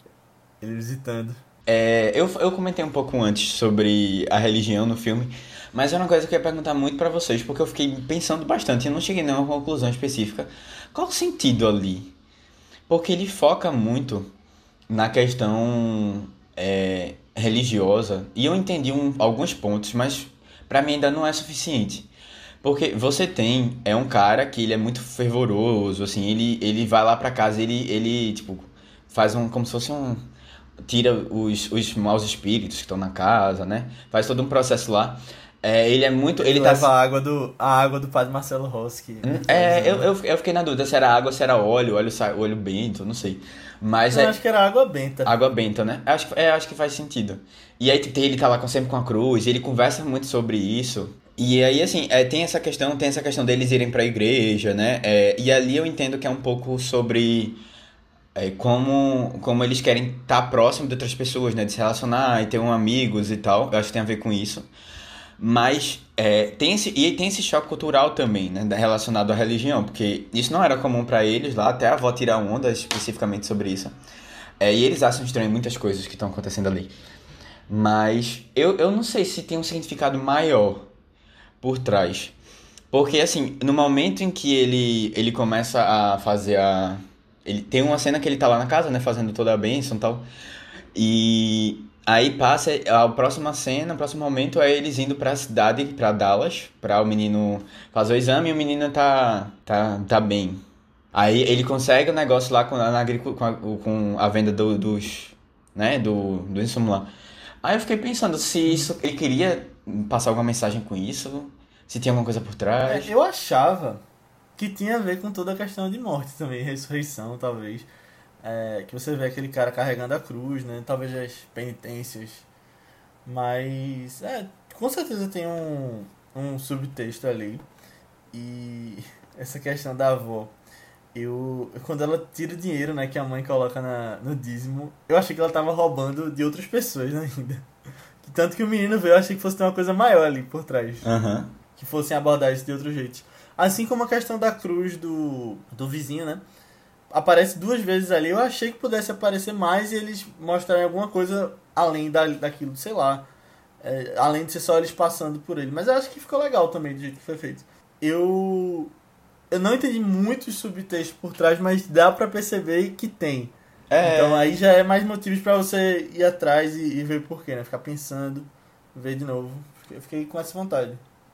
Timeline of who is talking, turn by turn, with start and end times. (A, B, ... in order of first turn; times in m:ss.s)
0:00.6-0:01.4 A
0:01.7-0:12.1 B
0:12.9-0:14.3 B
0:14.9-0:22.1 B
0:22.6-0:30.2 B
0:30.8-0:36.9 B
0:36.4-0:40.1 A
0:39.2-0:44.4 B
0:44.1-0:45.3 A
0:45.2-0:57.6 B
0:58.3-1:04.7 B
1:05.4-1:14.0 B
1:14.6-1:16.9 B
1:17.7-1:20.9 B
1:21.6-1:22.3 B
1:22.9-1:30.2 B
1:30.9-1:40.6 B
1:41.1-1:47.1 B
1:47.6-1:53.1 B
1:52.8-1:54.0 A
1:54.6-1:57.9 A
1:58.4-2:02.4 A
2:03.2-2:07.6 A
2:08.3-2:10.5 A
2:11.1-2:17.6 A
2:18.2-2:21.1 A
2:21.0-2:21.5 B
2:21.8-2:26.4 A
2:27.1-2:33.3 A
2:33.8-2:38.9 A
2:39.5-2:51.0 A
2:43.9-2:44.6 B